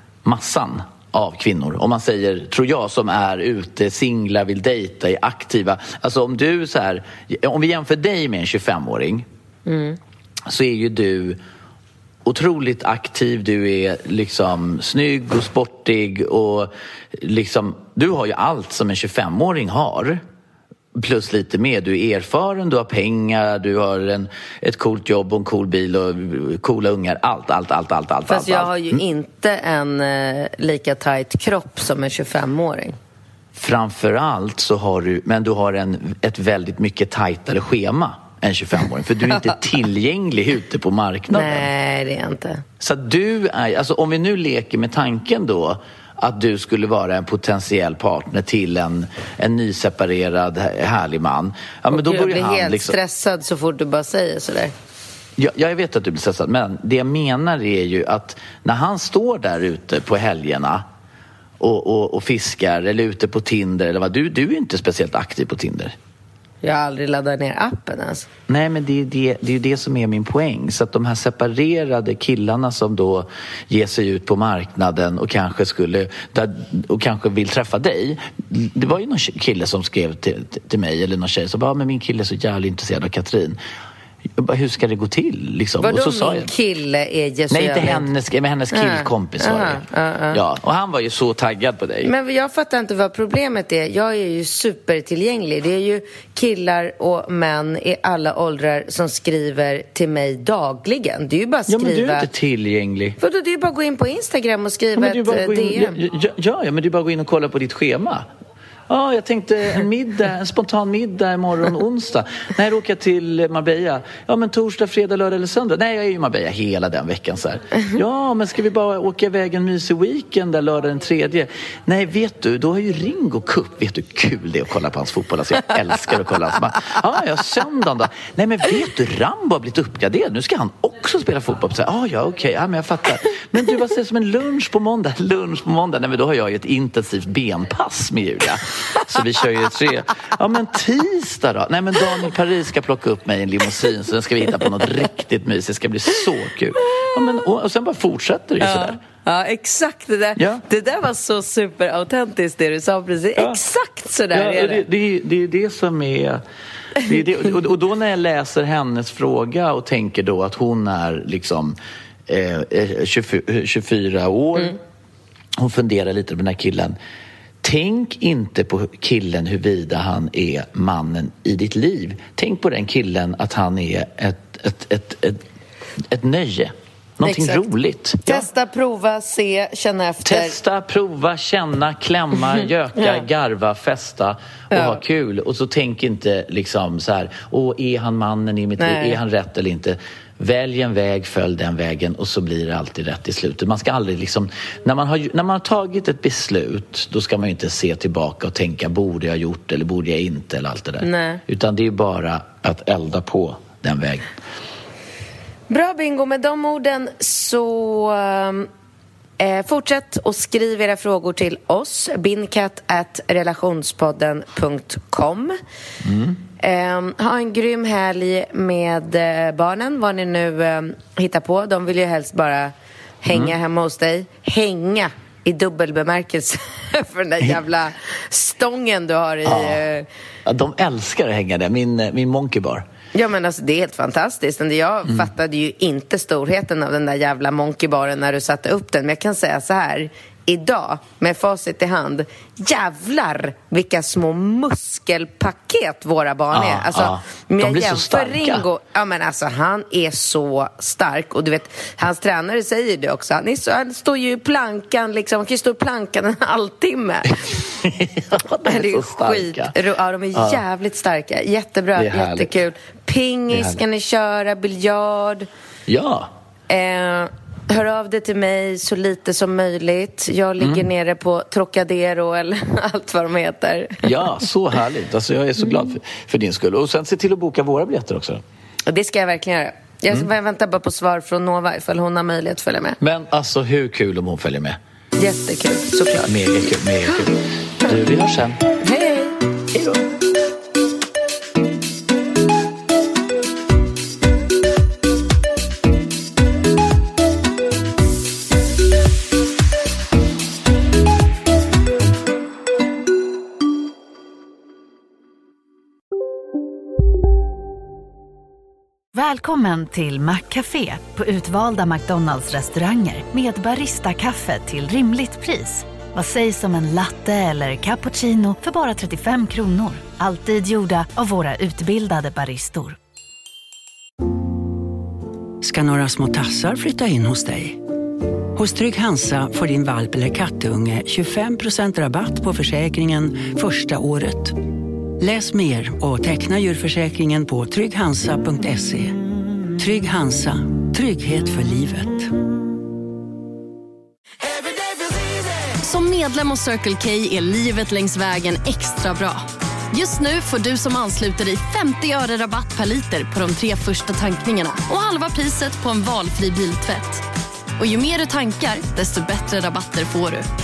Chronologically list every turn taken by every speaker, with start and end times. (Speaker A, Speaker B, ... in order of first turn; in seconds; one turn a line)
Speaker A: 0.2-9.3
Speaker B: 9.7-10.0
Speaker A: 10.5-11.4
Speaker A: 12.2-20.2
Speaker A: 20.9-29.0
Speaker B: 28.3-33.0
Speaker A: 33.5-41.7
Speaker B: 41.3-42.6
Speaker A: 42.8-53.0
Speaker B: 51.9-54.7
Speaker A: 55.4-60.9
Speaker A: 61.6-66.0
Speaker B: 66.6-68.3
Speaker A: 68.5-83.6
Speaker A: 84.4-86.5
Speaker B: 85.8-88.1
Speaker A: 87.5-92.1
Speaker B: 88.7-90.4
Speaker B: 92.0-102.3
Speaker A: 101.7-103.2
Speaker B: 103.2-106.0
Speaker A: 105.0-108.3
Speaker A: 108.9-149.0
Speaker B: 148.6-154.8
Speaker A: 150.4-150.6
Speaker A: 154.3-156.4
Speaker A: 157.0-164.8
Speaker A: 165.6-167.0
Speaker A: 167.6-175.4
Speaker A: 176.1-178.5
Speaker B: 177.2-177.6
Speaker B: 178.2-180.6
Speaker A: 180.2-204.3
Speaker B: 183.0-183.2
Speaker B: 184.7-185.0
Speaker B: 188.8-189.2
Speaker B: 201.0-201.4
Speaker B: 205.7-208.7
Speaker B: 209.4-215.6
Speaker A: 216.0-216.4
Speaker B: 216.6-230.1
Speaker A: 229.4-229.8
Speaker A: 230.5-232.8
Speaker B: 233.1-257.4
Speaker A: 246.5-248.7
Speaker A: 257.4-259.7
Speaker B: 258.7-265.5
Speaker A: 260.3-260.6
Speaker A: 261.9-262.6
Speaker A: 263.5-263.8
Speaker A: 265.9-266.3
Speaker B: 266.7-274.1
Speaker A: 270.6-270.9
Speaker A: 274.0-278.4
Speaker B: 278.9-283.0
Speaker A: 283.0-284.8
Speaker B: 285.2-286.4
Speaker A: 286.3-288.6
Speaker B: 288.8-289.4
Speaker A: 289.7-290.1
Speaker C: 309.1-323.0
Speaker D: 325.6-327.8
Speaker D: 328.6-334.6
Speaker D: 335.2-339.2
Speaker D: 339.8-342.3
Speaker E: 345.8-357.2
Speaker E: 357.8-360.5